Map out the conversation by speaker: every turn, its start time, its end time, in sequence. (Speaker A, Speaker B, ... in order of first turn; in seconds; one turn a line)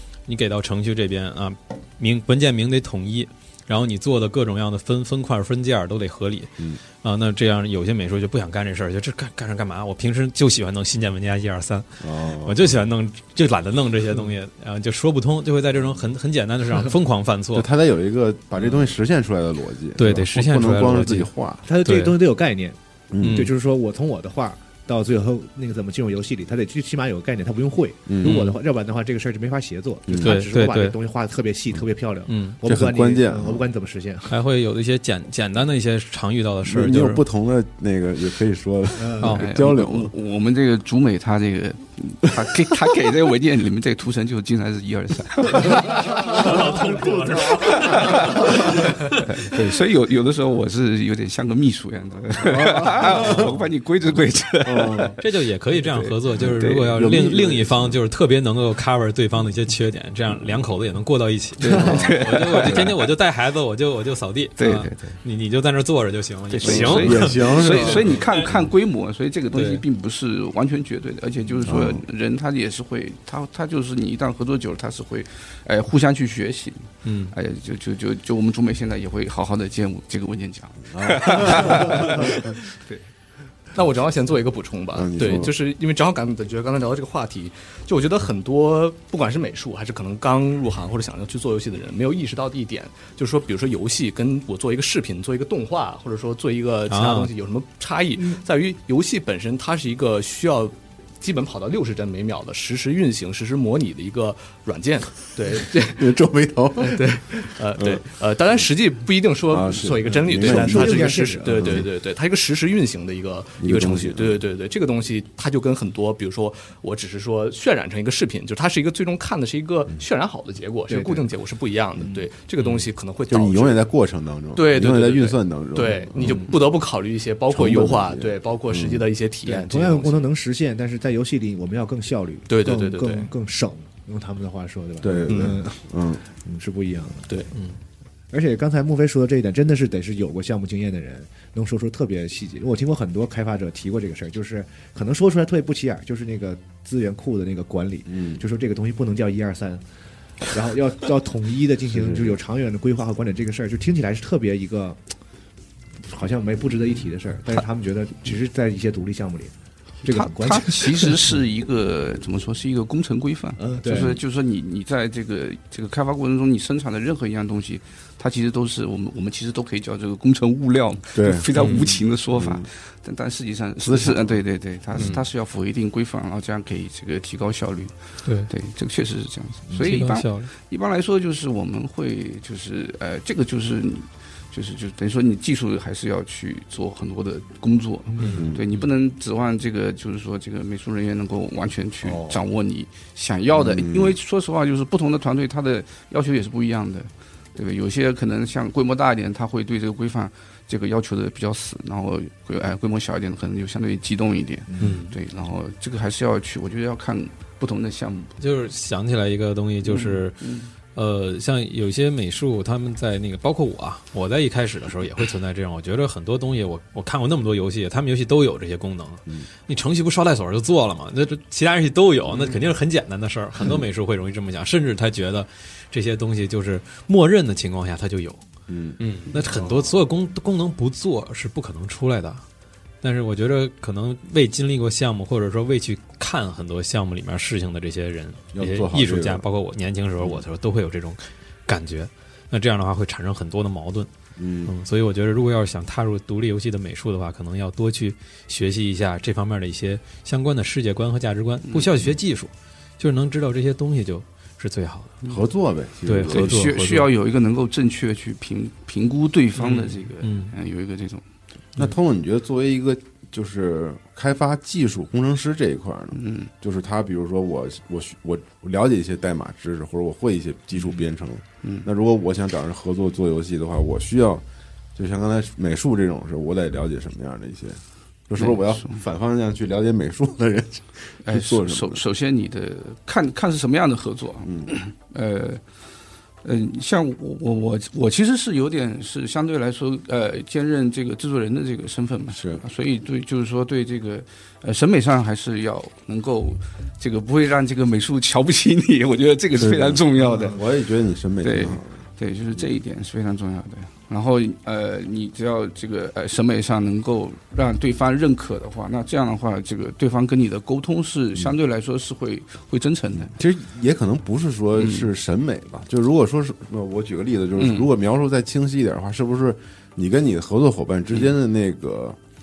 Speaker A: 0.3-17.7
Speaker B: 12.0-12.7
Speaker B: 17.5-21.6
Speaker A: 19.9-21.3
Speaker C: 21.6-34.3
Speaker A: 21.8-22.1
Speaker B: 23.1-23.5
Speaker A: 23.2-23.5
Speaker B: 28.1-28.4
Speaker A: 28.2-28.6
Speaker B: 30.1-30.4
Speaker A: 30.2-31.0
Speaker A: 32.3-32.6
Speaker B: 32.6-33.7
Speaker A: 34.3-37.2
Speaker B: 36.6-40.1
Speaker C: 39.0-39.4
Speaker A: 39.2-39.5
Speaker D: 39.3-46.7
Speaker B: 42.4-42.9
Speaker A: 45.7-49.5
Speaker D: 47.3-55.2
Speaker B: 52.4-53.6
Speaker A: 53.0-53.6
Speaker B: 54.6-55.2
Speaker A: 55.2-68.6
Speaker D: 55.7-57.0
Speaker B: 56.4-58.0
Speaker D: 61.6-63.0
Speaker B: 61.7-62.8
Speaker D: 64.6-65.2
Speaker D: 66.5-83.0
Speaker B: 66.6-68.3
Speaker A: 69.5-69.8
Speaker B: 71.6-72.0
Speaker A: 77.0-77.3
Speaker B: 80.9-82.0
Speaker E: 83.7-106.1
Speaker B: 84.9-85.5
Speaker A: 96.9-97.3
Speaker B: 105.8-107.2
Speaker E: 106.8-123.8
Speaker B: 107.8-108.0
Speaker B: 109.5-111.8
Speaker C: 110.1-111.8
Speaker B: 113.6-114.4
Speaker C: 120.9-121.3
Speaker B: 123.3-126.5
Speaker E: 124.5-130.2
Speaker B: 127.5-129.1
Speaker C: 129.4-137.4
Speaker E: 132.5-133.3
Speaker B: 135.0-136.2
Speaker E: 135.3-135.6
Speaker A: 137.5-137.8
Speaker C: 138.3-149.8
Speaker B: 148.1-148.4
Speaker C: 150.4-155.1
Speaker B: 151.9-152.4
Speaker C: 156.1-161.2
Speaker D: 160.0-208.4
Speaker C: 163.6-164.2
Speaker B: 171.1-172.7
Speaker E: 171.6-171.9
Speaker B: 173.8-174.4
Speaker A: 178.2-178.5
Speaker A: 179.7-180.5
Speaker A: 188.2-188.8
Speaker B: 188.3-188.7
Speaker B: 193.5-194.2
Speaker C: 204.7-205.0
Speaker A: 204.8-205.1
Speaker A: 208.4-228.4
Speaker D: 209.8-210.7
Speaker B: 228.7-229.0
Speaker E: 229.0-229.3
Speaker A: 229.3-232.4
Speaker A: 233.0-244.1
Speaker B: 238.5-239.4
Speaker B: 244.4-244.7
Speaker A: 244.6-255.2
Speaker B: 255.3-256.8
Speaker A: 256.1-257.1
Speaker D: 256.3-261.2
Speaker A: 259.6-260.5
Speaker B: 261.8-274.4
Speaker D: 266.1-266.5
Speaker D: 271.6-271.9
Speaker B: 274.9-282.0
Speaker D: 278.4-279.0
Speaker D: 281.2-285.7
Speaker B: 284.4-284.7
Speaker D: 286.4-300.6
Speaker B: 292.3-292.6
Speaker B: 299.5-302.0
Speaker C: 300.2-300.5
Speaker D: 301.4-313.3
Speaker B: 313.3-322.2
Speaker D: 314.8-315.1
Speaker D: 317.6-317.9